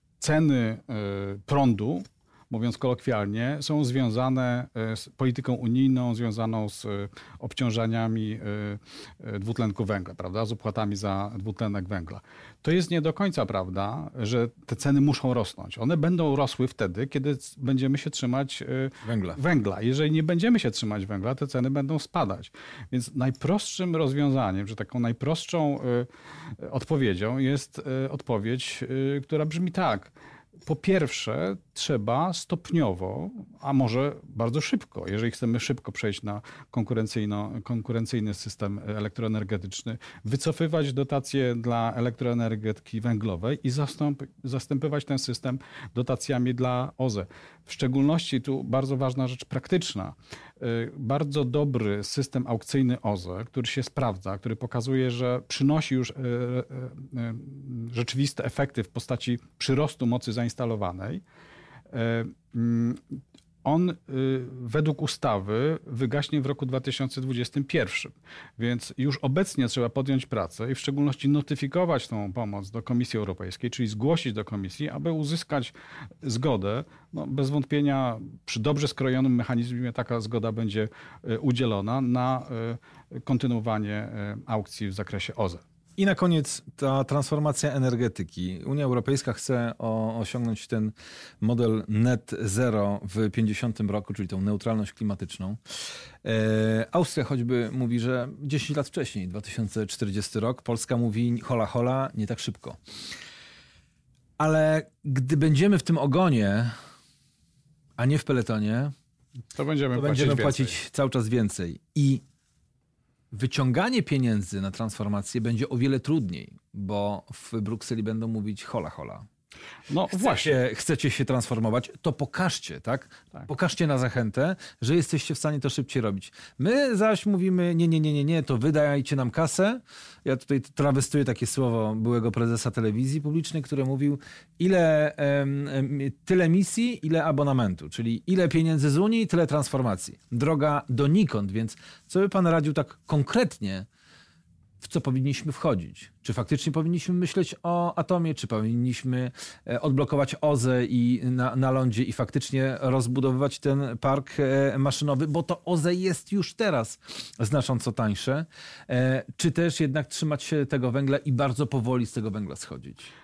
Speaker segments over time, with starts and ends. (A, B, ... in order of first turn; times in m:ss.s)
0:00.2-0:26.1 A
0:19.0-0:19.4 B
0:26.6-0:30.1 A
0:30.7-1:01.2 A
1:01.9-1:03.0 A
1:03.6-1:25.6 A
1:26.0-1:35.6 B
1:36.2-1:42.8 B
1:44.4-1:46.7 B
1:48.0-1:48.9 B
1:49.5-1:50.8 A
1:50.0-1:52.2 B
1:53.3-1:59.2 B
1:59.9-2:00.6 A
2:00.1-2:23.9 B
2:24.8-2:43.1 B